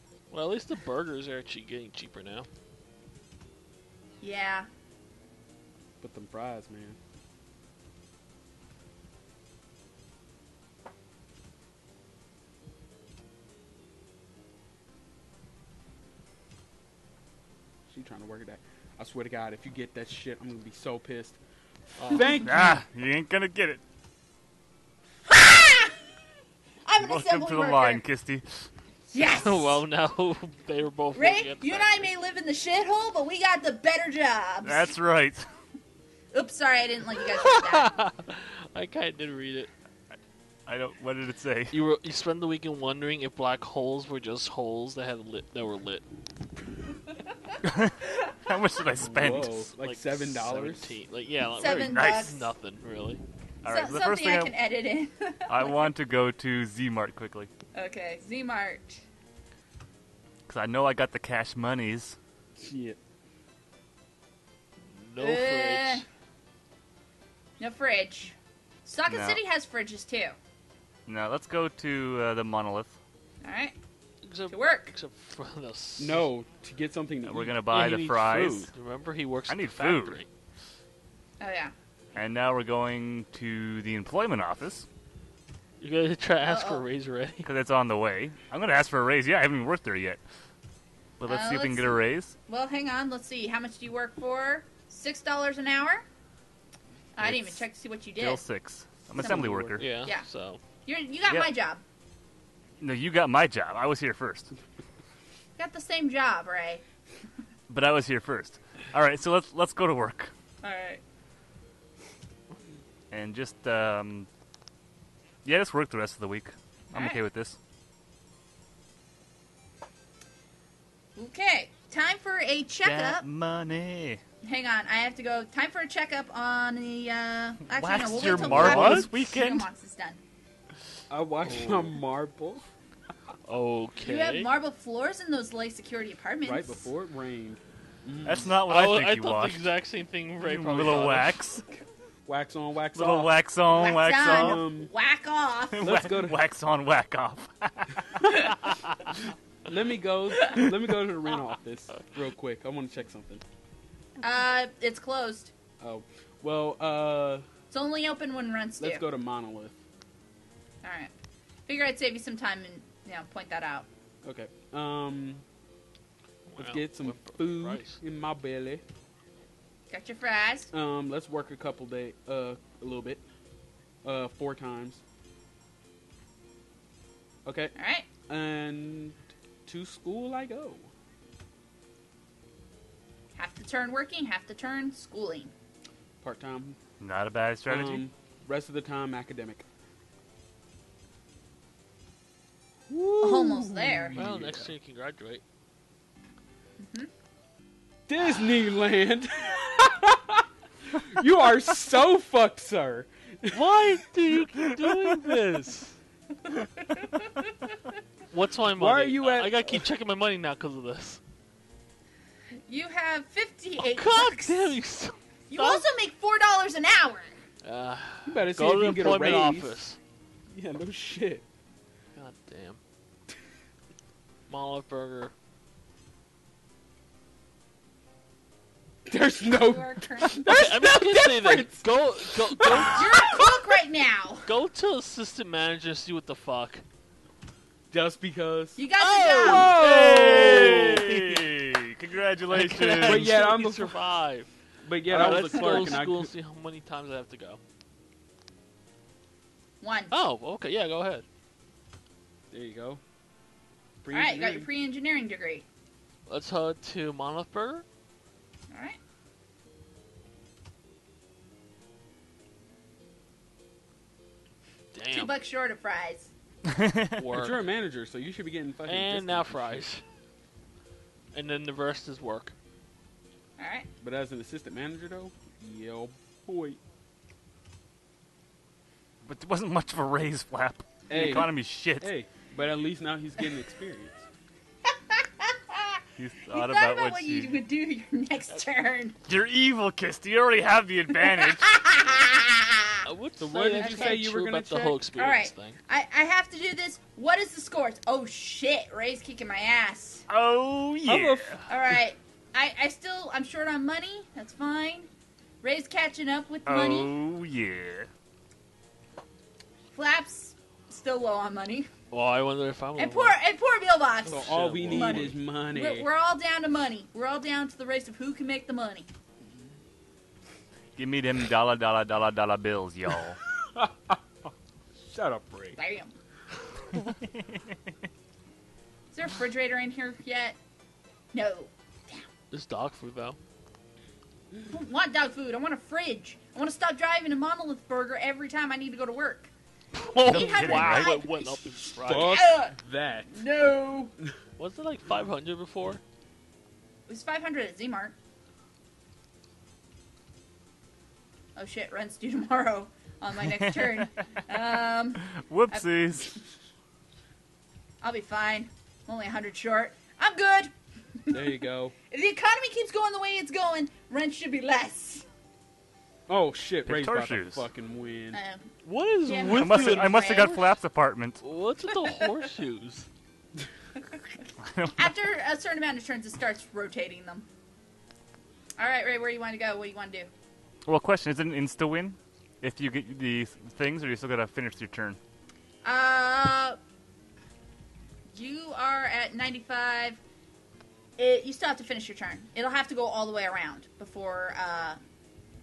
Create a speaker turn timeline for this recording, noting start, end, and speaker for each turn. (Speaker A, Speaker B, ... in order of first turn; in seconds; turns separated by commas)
Speaker A: 0.3-2.5, Speaker B: 4.2-4.7, Speaker C: 6.0-7.0, Speaker C: 17.9-21.4, Speaker A: 22.0-22.4, Speaker C: 22.1-22.8, Speaker D: 22.4-23.8, Speaker B: 25.3-25.9, Speaker B: 26.9-28.0, Speaker D: 27.0-28.7, Speaker B: 29.1-29.8, Speaker A: 29.1-32.1, Speaker B: 31.1-34.9, Speaker D: 34.6-35.5, Speaker B: 36.3-38.0, Speaker A: 37.2-39.7, Speaker D: 40.7-41.8, Speaker A: 41.7-46.0, Speaker D: 47.6-49.7, Speaker C: 49.0-51.0, Speaker A: 49.8-53.2, Speaker B: 51.6-52.5, Speaker D: 51.9-52.3, Speaker D: 53.6-54.5, Speaker B: 53.7-55.9, Speaker D: 55.5-57.5, Speaker B: 57.7-59.0, Speaker D: 60.5-62.2, Speaker C: 62.6-63.0, Speaker A: 64.9-66.0, Speaker B: 65.2-66.0, Speaker B: 67.6-70.4, Speaker D: 69.1-69.4, Speaker D: 71.1-73.0, Speaker B: 73.4-73.8, Speaker A: 74.2-76.3, Speaker B: 74.5-74.9, Speaker C: 76.0-77.6, Speaker D: 77.2-78.7, Speaker A: 77.7-80.3, Speaker D: 79.5-80.2, Speaker B: 81.4-81.7, Speaker D: 82.2-84.9, Speaker A: 85.8-87.5, Speaker B: 86.4-86.8, Speaker D: 87.4-90.2, Speaker D: 91.2-92.4, Speaker B: 91.3-96.0, Speaker B: 97.2-98.5, Speaker D: 97.2-99.8, Speaker C: 99.2-99.8, Speaker B: 99.2-100.3, Speaker A: 99.8-100.6, Speaker B: 100.8-101.8, Speaker D: 102.8-104.5, Speaker B: 105.6-106.8, Speaker D: 107.7-110.3, Speaker B: 110.6-111.0, Speaker D: 113.1-114.3, Speaker D: 115.4-117.6, Speaker B: 117.0-117.2, Speaker B: 121.2-123.2, Speaker D: 122.8-124.2, Speaker B: 124.4-130.2, Speaker D: 127.7-129.7, Speaker A: 128.2-129.3, Speaker C: 131.1-132.6, Speaker A: 133.5-134.5, Speaker B: 134.0-136.9, Speaker C: 136.4-138.6, Speaker D: 138.2-139.7, Speaker A: 138.7-141.4, Speaker D: 140.4-141.6, Speaker C: 142.3-143.3, Speaker D: 142.9-144.6, Speaker B: 143.7-145.9, Speaker C: 144.3-144.9, Speaker D: 145.7-148.4, Speaker C: 145.8-146.4, Speaker C: 149.7-153.4, Speaker B: 154.2-155.5, Speaker C: 155.8-157.4, Speaker B: 157.7-159.0, Speaker C: 158.8-159.8, Speaker B: 160.8-161.1, Speaker B: 161.7-163.9, Speaker C: 164.2-165.4, Speaker A: 166.5-168.0, Speaker C: 166.6-168.8, Speaker B: 169.9-170.7, Speaker C: 170.7-173.2, Speaker C: 174.0-175.0, Speaker C: 177.4-177.7, Speaker B: 177.8-178.1, Speaker C: 178.3-180.9, Speaker B: 183.4-185.5, Speaker C: 186.2-186.8, Speaker D: 187.0-188.1, Speaker C: 187.7-189.7, Speaker C: 192.9-194.7, Speaker B: 193.2-194.2, Speaker A: 194.2-195.4, Speaker B: 196.8-197.1, Speaker C: 198.1-203.7, Speaker A: 203.5-206.0, Speaker A: 208.3-211.2, Speaker C: 208.7-209.8, Speaker B: 212.7-214.7, Speaker A: 213.8-215.9, Speaker B: 215.5-217.3, Speaker A: 217.6-220.0, Speaker C: 218.3-219.8, Speaker C: 220.5-221.4, Speaker A: 222.2-222.8, Speaker A: 224.5-225.3, Speaker C: 229.1-233.5, Speaker B: 229.5-230.5, Speaker A: 230.4-233.2, Speaker B: 232.8-234.5, Speaker A: 234.4-236.8, Speaker C: 237.9-241.1, Speaker B: 238.8-239.8, Speaker A: 239.0-241.5, Speaker D: 240.1-243.3, Speaker A: 242.5-244.5, Speaker C: 243.0-244.0, Speaker C: 244.8-246.3, Speaker A: 245.1-247.6, Speaker B: 245.3-245.8, Speaker B: 249.8-250.2, Speaker A: 250.1-251.2, Speaker C: 252.5-253.0, Speaker C: 254.0-254.7, Speaker B: 254.1-255.7, Speaker A: 256.3-257.9, Speaker B: 258.7-259.0, Speaker A: 264.9-265.3, Speaker B: 265.1-266.3, Speaker D: 266.6-267.2, Speaker A: 267.2-267.6, Speaker C: 267.3-269.9, Speaker A: 268.9-270.0, Speaker A: 271.3-272.5, Speaker B: 273.6-273.9, Speaker C: 274.0-276.8, Speaker D: 279.2-282.1, Speaker C: 281.1-284.3, Speaker B: 285.1-286.0, Speaker D: 286.2-287.6, Speaker B: 286.5-289.2, Speaker D: 289.3-291.8, Speaker B: 291.2-293.1, Speaker A: 293.1-295.8, Speaker C: 293.4-295.0, Speaker B: 293.8-294.2, Speaker B: 295.2-300.3, Speaker D: 300.3-301.6, Speaker C: 301.1-301.7, Speaker B: 301.7-305.1, Speaker B: 305.6-307.1, Speaker D: 306.7-308.1, Speaker B: 309.9-311.9, Speaker A: 312.1-313.4, Speaker B: 313.0-319.1, Speaker C: 314.2-316.1, Speaker A: 314.4-315.3, Speaker D: 321.0-323.4, Speaker C: 323.7-324.5, Speaker C: 325.0-325.8, Speaker B: 325.8-326.1, Speaker D: 327.1-327.6, Speaker B: 329.1-330.6, Speaker B: 331.3-332.3, Speaker A: 332.5-333.4, Speaker B: 334.7-339.5, Speaker A: 339.9-342.4, Speaker B: 340.2-342.8, Speaker D: 340.3-341.1, Speaker C: 342.1-343.4, Speaker B: 343.3-344.1, Speaker A: 344.6-346.0, Speaker B: 347.1-348.1, Speaker B: 351.6-356.4, Speaker D: 353.4-354.1, Speaker D: 355.2-356.4, Speaker B: 358.0-361.5, Speaker C: 361.3-361.9, Speaker B: 362.1-365.2, Speaker C: 366.3-368.4, Speaker D: 366.9-367.7, Speaker B: 368.3-368.7, Speaker A: 368.9-370.4, Speaker B: 369.2-370.7, Speaker D: 369.5-371.4, Speaker A: 371.4-373.1, Speaker B: 374.0-374.4, Speaker D: 374.6-375.1, Speaker B: 375.0-377.5, Speaker B: 378.8-380.3, Speaker D: 380.9-385.2, Speaker B: 385.8-386.8, Speaker B: 388.3-390.2, Speaker B: 391.2-395.0